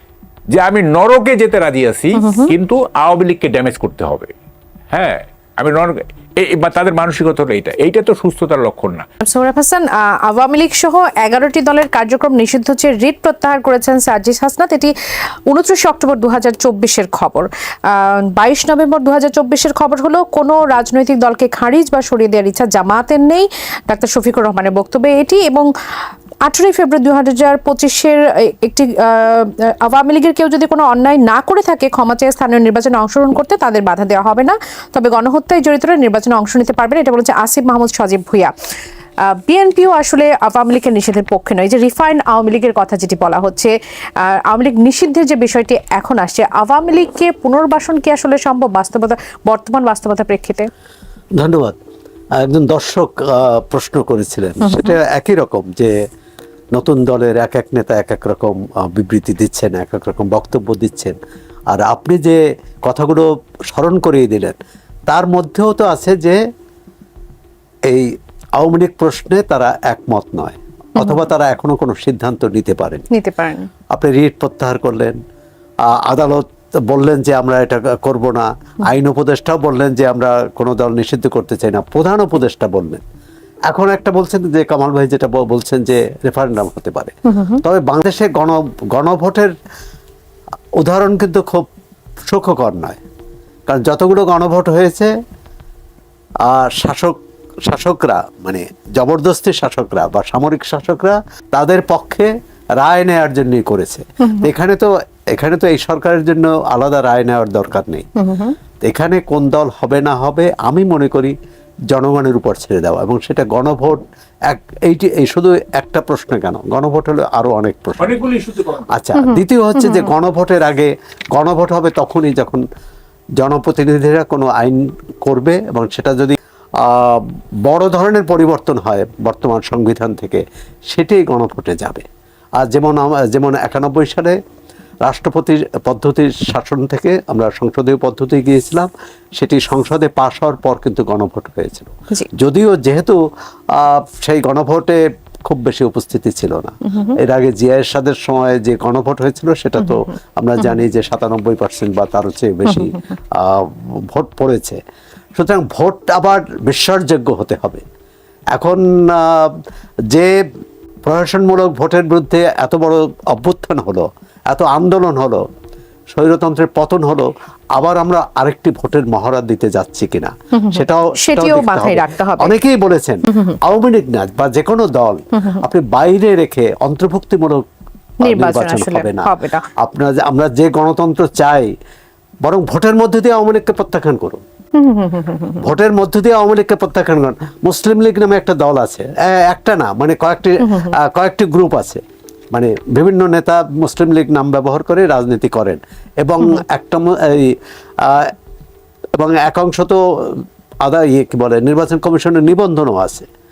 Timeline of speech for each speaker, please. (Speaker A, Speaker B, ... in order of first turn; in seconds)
Speaker A: 0.6-4.3, 4.9-9.1, 118.0-118.9
Speaker B: 2.2-2.5, 9.2-14.9, 15.5-25.7, 26.5-38.5, 39.3-50.7, 54.6-55.0, 71.0-71.3, 73.1-73.7, 87.3-87.6, 108.2-108.6, 119.2-120.1, 146.9-147.2, 149.8-150.0, 152.7-153.0, 170.6-172.6, 173.3-173.6, 178.2-179.7, 184.8-185.7, 190.6-190.9
Speaker C: 51.4-51.8, 52.4-55.9, 56.8-61.2, 61.7-64.6, 65.1-66.4, 67.9-73.1, 73.9-75.2, 75.9-83.0, 83.7-89.5, 90.8-91.7, 92.3-93.0, 93.7-95.1, 96.4-108.1, 108.8-111.3, 111.9-118.2, 118.9-122.6, 123.4-132.1, 132.6-134.4, 135.0-143.2, 143.7-154.8, 155.4-157.8, 158.5-159.6, 161.1-165.4, 166.1-177.6, 178.2-181.7, 182.4-184.4, 185.6-192.0, 192.5-198.3, 199.2-203.3